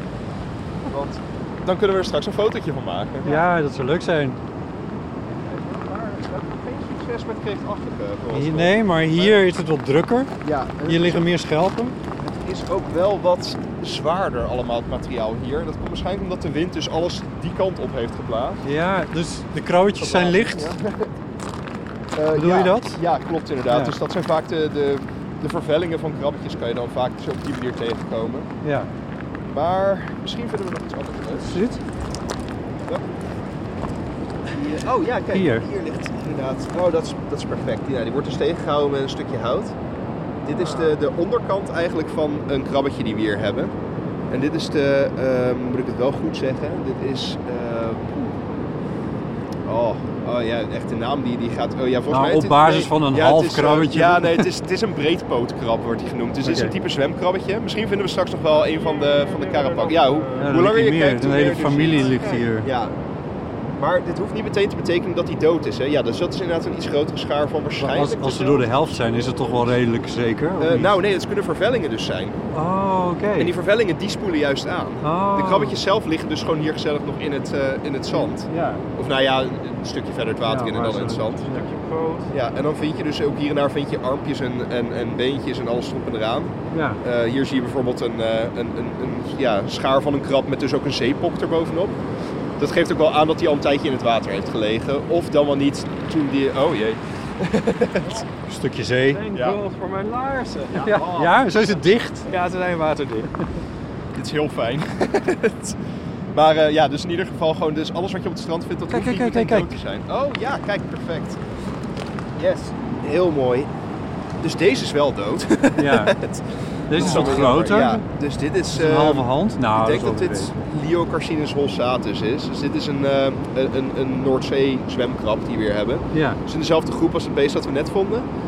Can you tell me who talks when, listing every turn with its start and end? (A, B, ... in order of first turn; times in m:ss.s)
0:00.8-0:03.4 A
0:03.2-0:04.4 B
0:05.3-0:09.4 A
0:08.3-0:10.3 B
0:10.4-0:11.3 A
0:10.8-0:11.9 B
0:12.2-0:18.6 A
0:18.6-0:20.7 B
0:20.0-0:21.1 A
0:22.1-0:28.5 A
0:22.3-0:23.0 B
0:23.7-0:23.9 B
0:28.6-0:28.9 B
0:29.5-0:31.5 A
0:31.4-0:31.8 B
0:34.5-0:39.8 A
0:35.3-0:35.7 B
0:40.4-0:43.7 A
0:40.5-0:41.0 C
0:44.3-0:48.4 A
0:49.6-1:03.0 A
0:52.1-0:54.5 B
0:56.4-0:56.7 B
0:58.6-1:00.5 C
1:00.4-1:02.7 B
1:01.9-1:02.4 C
1:03.8-1:08.7 A
1:07.8-1:11.0 B
1:10.6-1:12.4 A
1:12.5-1:13.5 B
1:13.4-1:21.4 A
1:15.0-1:15.8 B
1:18.2-1:18.8 B
1:20.4-1:21.7 B
1:21.4-1:22.3 C
1:22.3-1:32.0 A
1:26.7-1:27.0 B
1:32.6-1:38.2 A
1:38.4-1:39.2 B
1:39.1-1:41.4 C
1:39.3-1:39.6 A
1:40.7-1:41.3 A
1:40.8-1:42.2 B
1:42.2-1:43.3 C
1:44.1-1:45.8 A
1:46.3-1:51.4 A
1:48.9-1:49.7 B
1:52.4-1:53.7 A
1:54.4-2:08.3 A
1:55.8-1:56.2 B
1:56.9-1:58.0 B
1:58.7-2:00.5 B
2:06.1-2:06.4 B